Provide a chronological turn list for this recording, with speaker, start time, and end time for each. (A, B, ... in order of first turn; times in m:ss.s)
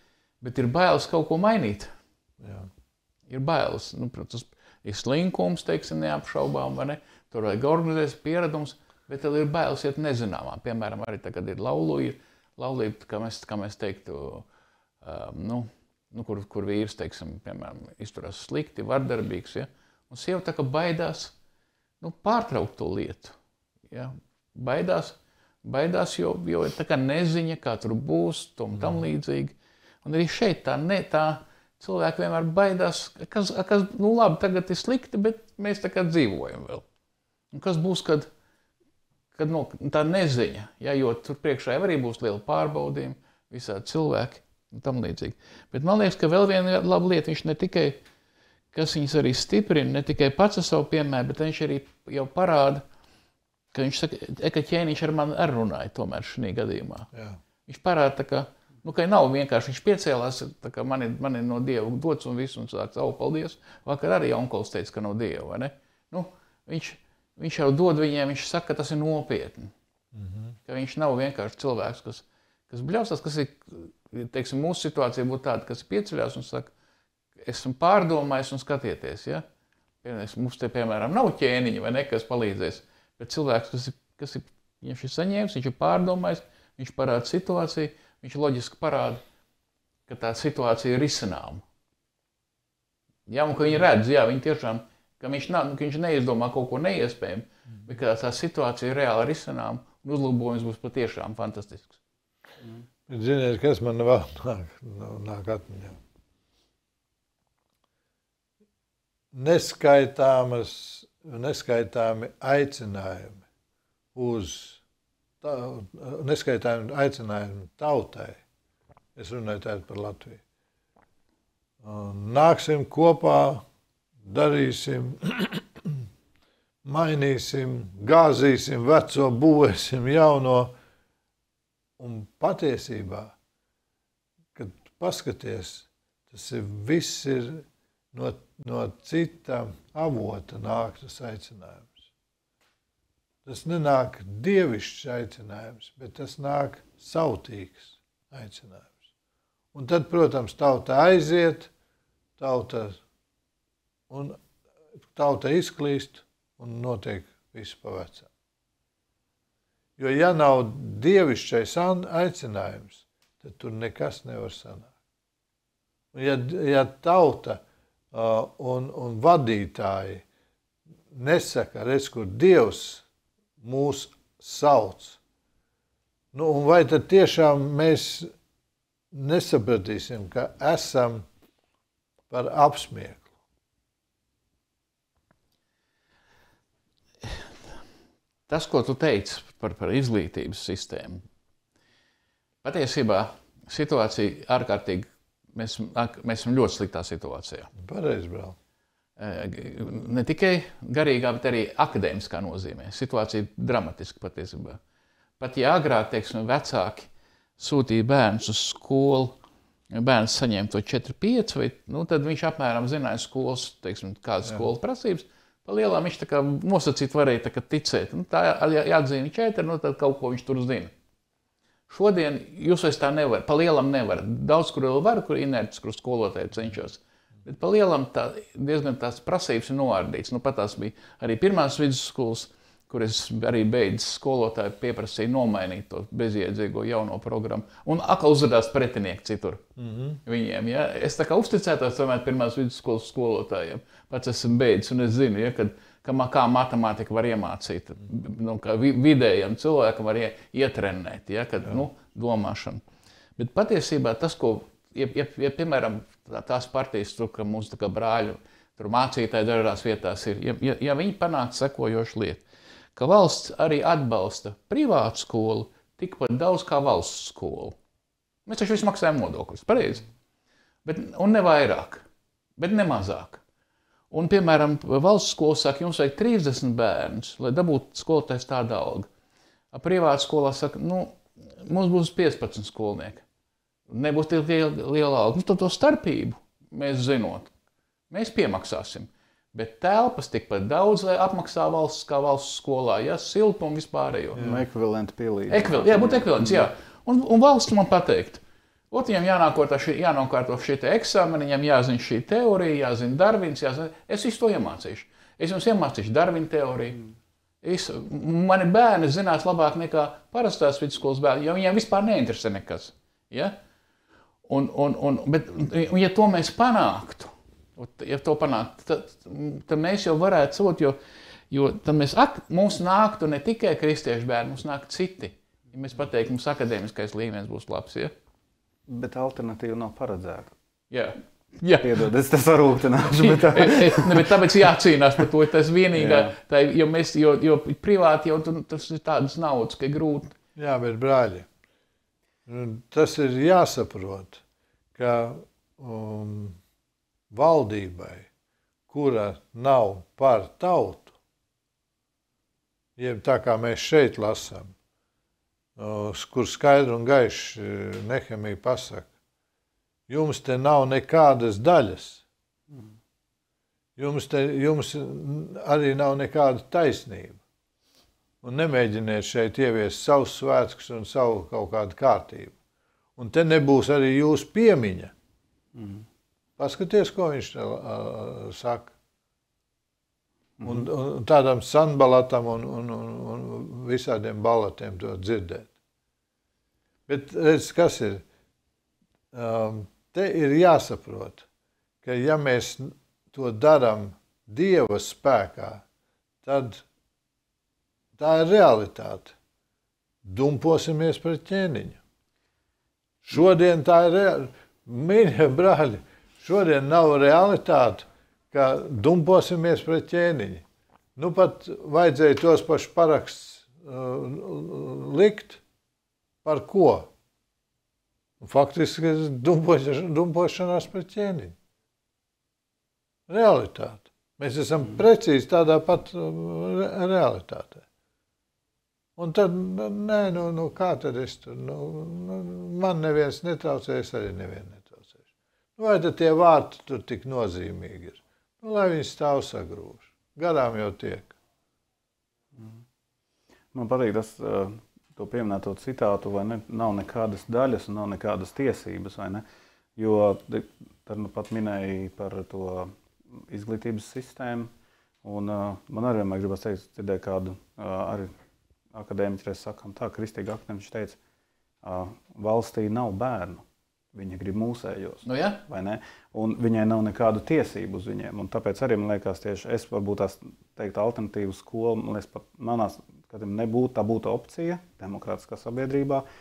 0:00.4-0:01.9 A
0:02.4-0:02.7 B
0:03.3-0:14.5 A
0:15.0-0:21.3 A
0:22.0-0:23.3 A
0:23.9-0:36.8 A
0:28.7-0:29.0 B
0:37.5-0:38.3 A
0:39.3-0:48.0 A
0:48.7-0:52.8 A
0:53.7-0:57.1 A
0:57.1-0:57.4 B
0:57.7-1:09.7 A
1:10.1-1:10.6 B
1:10.6-1:16.7 A
1:17.4-1:19.4 A
1:20.0-1:29.2 A
1:30.1-1:31.6 A
1:33.3-1:42.0 A
1:43.1-1:46.0 B
1:49.3-1:53.4 B
1:54.1-1:54.8 B
1:55.4-1:58.4 B
1:59.2-2:00.4 B
2:01.8-2:03.6 B
2:04.3-2:06.0 B
2:06.8-2:10.7 B
2:12.0-2:13.3 B
2:14.5-2:22.1 B
2:23.4-2:29.0 B
2:29.7-2:31.7 B
2:32.4-2:33.0 B
2:34.1-2:34.4 B
2:35.1-2:38.3 B
2:40.0-2:44.9 B
2:46.1-2:47.6 B
2:48.1-2:50.2 B
2:51.1-2:53.0 B
2:53.6-2:55.2 B
2:56.3-2:58.3 B
2:59.1-3:01.2 B
3:02.3-3:03.2 B
3:08.5-3:11.2 A
3:12.6-3:17.7 A
3:17.8-3:18.6 B
3:19.2-3:24.8 A
3:25.4-3:27.1 A
3:27.6-3:29.4 A
3:29.9-3:40.9 A
3:41.9-3:59.6 A
3:59.8-4:00.2 B
4:00.2-4:12.8 A
4:13.4-4:22.4 A
4:22.9-4:27.8 A
4:28.4-4:30.0 A
4:30.8-4:32.0 A
4:32.6-4:33.4 A
4:34.1-4:39.1 A
4:39.7-4:43.2 A
4:43.9-4:47.5 A
4:48.1-4:54.5 A
4:54.4-4:56.7 C
4:55.5-5:07.0 A
5:07.6-5:13.6 A
5:14.4-5:21.0 A
5:21.5-5:28.1 A
5:28.9-5:30.5 C
5:30.9-5:32.0 A
5:31.8-5:34.5 C
5:33.0-5:40.3 A
5:35.9-5:36.3 C
5:40.6-5:41.5 B
5:42.4-5:44.4 B
5:44.9-5:46.6 B
5:47.3-5:48.3 B
5:48.9-5:51.1 B
5:53.0-5:54.7 B
5:55.8-5:59.1 B
6:00.1-6:02.2 B
6:04.0-6:07.4 B
6:08.4-6:12.6 B
6:13.2-6:15.1 B
6:15.8-6:16.0 C
6:16.6-6:18.9 B
6:20.6-6:20.9 C
6:20.6-6:25.7 B
6:27.1-6:28.2 B
6:29.3-6:31.4 B
6:32.0-6:35.8 B
6:36.4-6:36.8 B
6:38.2-6:39.3 B
6:40.2-6:42.0 B
6:43.2-6:50.6 B
6:51.2-6:55.6 B
6:56.4-6:57.1 B
6:58.4-7:01.6 B
7:03.3-7:07.8 B
7:09.2-7:15.2 B
7:15.8-7:21.4 B
7:22.6-7:22.8 C
7:23.7-7:29.4 C
7:30.0-7:34.7 C
7:35.2-7:38.3 C
7:38.9-7:41.2 C
7:41.8-7:56.2 C
7:45.2-7:45.6 A